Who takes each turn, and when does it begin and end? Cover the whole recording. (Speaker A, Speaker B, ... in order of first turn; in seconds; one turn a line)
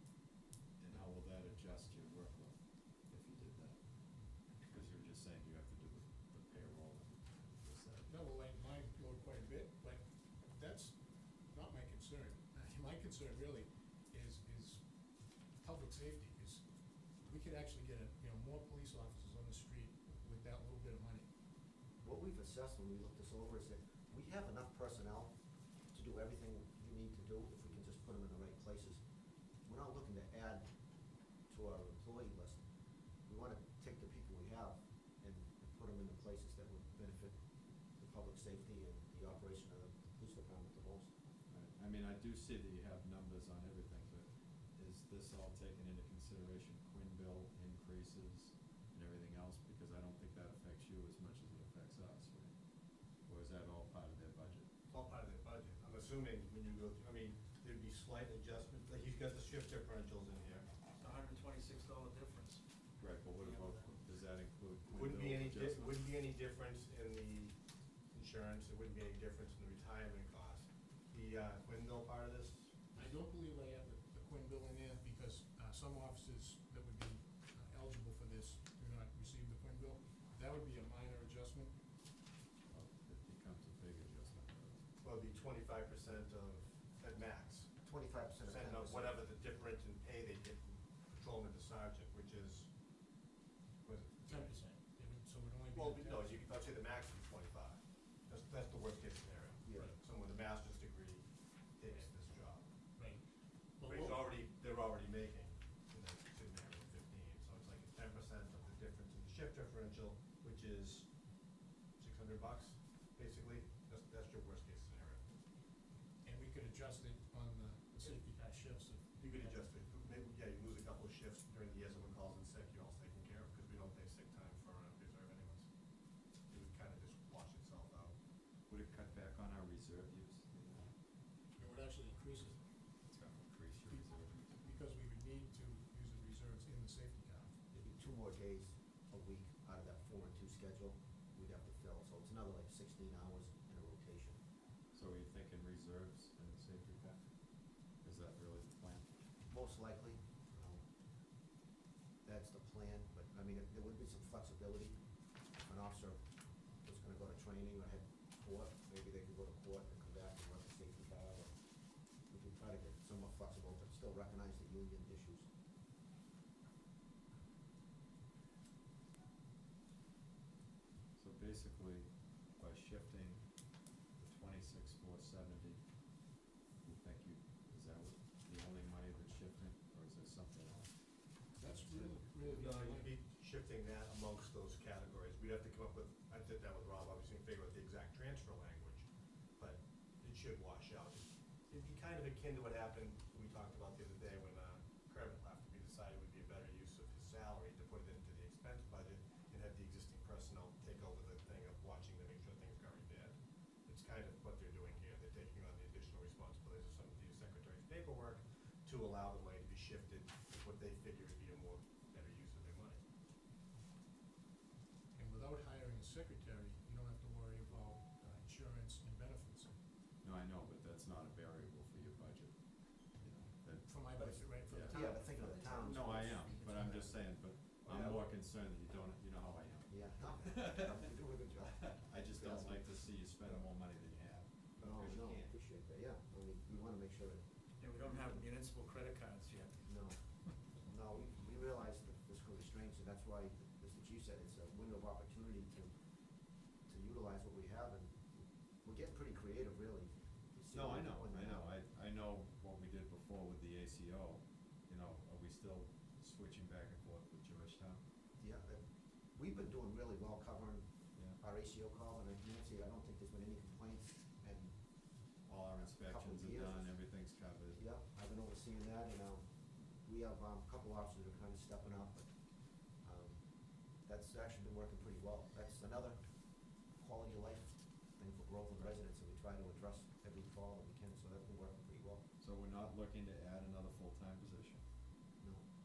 Speaker A: 0.8-8.4
Speaker B: 8.1-21.3
Speaker C: 22.0-41.1
Speaker A: 41.5-54.7
Speaker D: 54.9-60.7
Speaker E: 61.0-64.0
Speaker A: 63.0-66.0
Speaker D: 64.9-72.8
Speaker B: 72.9-81.8
Speaker A: 82.7-84.9
Speaker D: 85.0-87.8
Speaker C: 87.8-89.3
Speaker D: 88.4-92.7
Speaker D: 93.8-94.7
Speaker B: 94.3-96.6
Speaker D: 95.7-102.7
Speaker C: 99.6-99.9
Speaker B: 103.0-104.3
Speaker D: 103.8-115.2
Speaker B: 116.2-119.6
Speaker D: 119.2-128.2
Speaker A: 128.7-130.9
Speaker B: 131.5-132.6
Speaker A: 133.0-134.7
Speaker B: 133.9-137.5
Speaker C: 137.7-144.4
Speaker A: 144.9-149.2
Speaker C: 149.5-151.4
Speaker C: 152.2-165.5
Speaker A: 171.1-176.3
Speaker A: 176.8-182.3
Speaker B: 181.5-183.1
Speaker D: 182.4-213.0
Speaker B: 215.1-219.7
Speaker A: 220.2-231.0
Speaker B: 223.8-225.7
Speaker C: 224.9-226.6
Speaker E: 225.0-227.1
Speaker C: 227.8-228.3
Speaker C: 229.8-233.0
Speaker A: 231.6-235.6
Speaker C: 234.8-237.6
Speaker E: 237.8-240.6
Speaker C: 239.8-251.7
Speaker A: 250.7-258.0
Speaker C: 258.4-265.2
Speaker A: 265.4-267.9
Speaker C: 265.9-267.1
Speaker C: 267.7-282.2
Speaker A: 282.4-285.2
Speaker C: 285.4-285.7